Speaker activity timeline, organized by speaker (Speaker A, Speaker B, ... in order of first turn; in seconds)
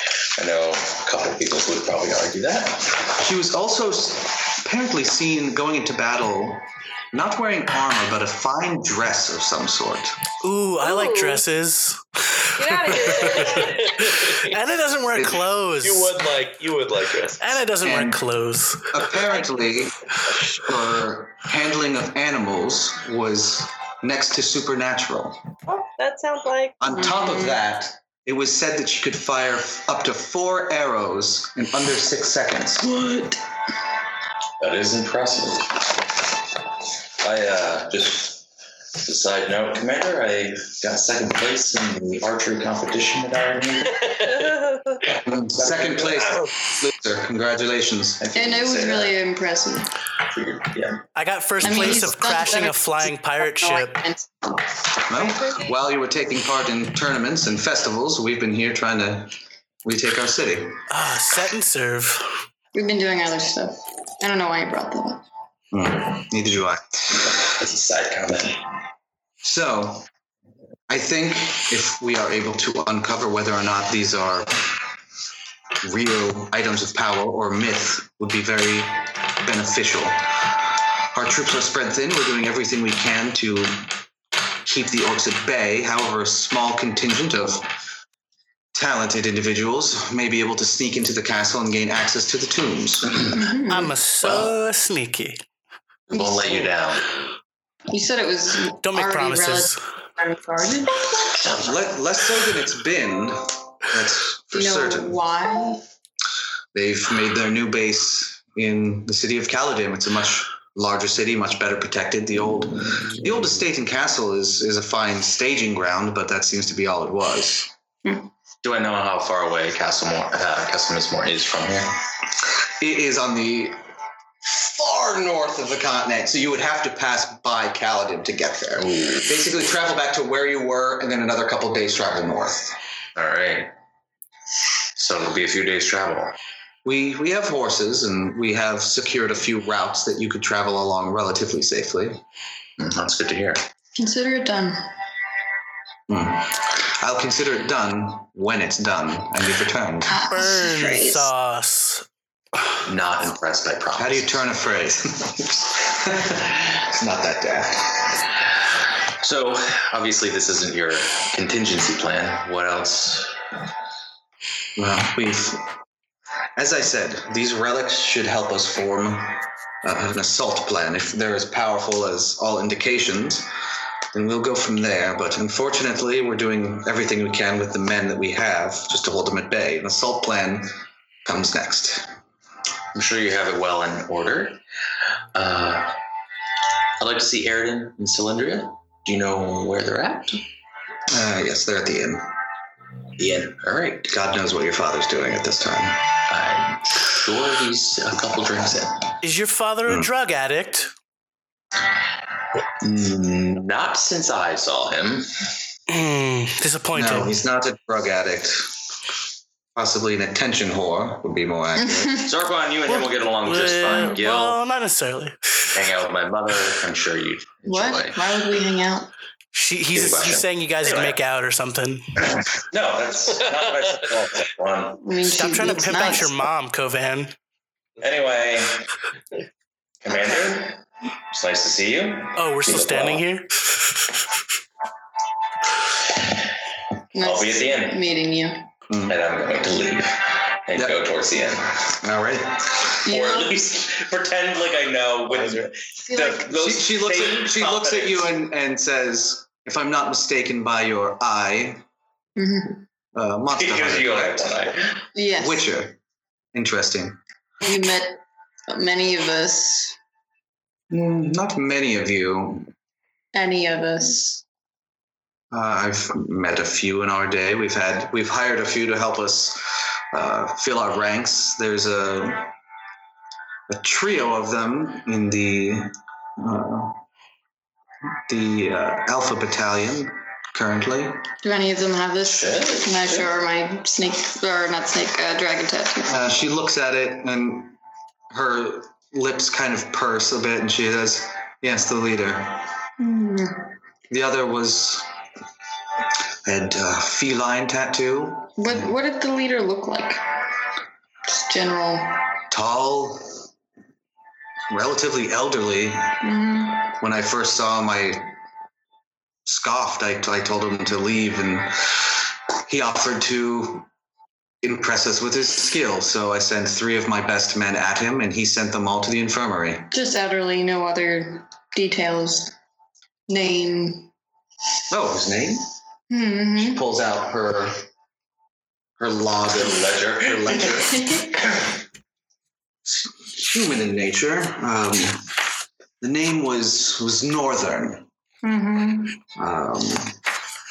Speaker A: 0.4-3.0, 34.6-35.9, 37.2-38.5, 39.0-44.2, 45.6-46.1, 48.2-49.2, 50.2-51.1, 67.2-68.6, 94.2-94.5, 96.1-97.1, 101.4-101.7, 118.6-122.0, 128.8-129.3, 133.1-133.7, 134.9-136.3, 142.8-143.7, 152.8-154.4, 159.1-163.4, 182.9-184.6, 185.3-186.0, 187.0-190.4, 193.2-194.1, 196.3-199.2, 202.8-205.3, 212.2-214.6, 215.7-218.2, 219.9-221.2, 222.5-225.0, 228.0-228.9, 230.0-233.2, 237.2-238.0, 239.1-241.7, 243.0-248.3, 253.5-255.0, 282.2-283.3, 329.5-331.7
Speaker B: 3.2-10.2, 17.8-18.2, 18.9-20.0, 20.6-25.4, 26.8-32.9, 45.2-48.2, 55.1-59.3, 59.9-60.8, 65.7-67.2, 69.4-70.1, 70.9-74.6, 75.8-80.3, 81.1-83.9, 84.6-87.7, 88.7-93.3, 101.6-105.2, 106.7-117.7, 122.8-123.8, 124.4-132.8, 136.8-142.2, 146.1-150.2, 154.0-158.1, 164.8-165.7, 166.6-173.5, 174.1-182.1, 191.1-192.3, 194.1-196.0, 206.9-208.7, 209.8-212.2, 238.9-239.2, 242.0-242.9, 246.5-251.8, 253.1-254.7, 255.4-256.0, 256.5-257.2, 260.9-262.7, 265.5-272.5, 273.7-277.0, 278.3-281.2, 286.1-287.8, 288.3-292.6, 294.1-295.1, 296.4-298.9, 302.5-303.4, 304.7-306.2, 307.0-308.3, 309.4-312.1, 312.7-313.9, 314.6-319.9, 324.9-325.6, 326.6-327.9, 329.0-331.0, 333.0-335.2, 336.0-338.1, 339.4-340.1
Speaker C: 10.4-16.2, 17.4-18.9, 51.1-54.0, 60.9-62.3, 93.7-95.4, 98.8-99.8, 150.2-152.0, 199.2-200.9, 205.9-207.3, 212.9-215.4, 219.5-222.1, 225.3-227.3, 232.4-233.5
Speaker D: 10.8-11.4, 12.6-13.9, 25.7-26.8, 55.2-55.6
Speaker E: 13.5-14.5, 15.8-17.6, 44.0-44.5
Speaker F: 27.0-27.6, 32.9-33.4, 48.4-49.9, 51.6-54.8, 62.7-65.2, 93.3-93.9, 96.1-96.7, 97.9-101.1, 104.5-105.8, 144.0-144.9, 150.1-151.3, 211.9-212.3, 217.6-219.1, 225.0-226.4, 237.1-238.7, 243.0-243.6, 246.0-246.5, 252.4-252.8, 255.1-255.7, 257.6-260.0, 263.3-264.4, 281.4-286.2, 293.0-293.7, 298.6-300.2, 301.3-302.1, 306.2-306.9, 319.9-322.5, 323.3-324.1, 326.1-326.8, 331.0-331.2, 338.4-339.2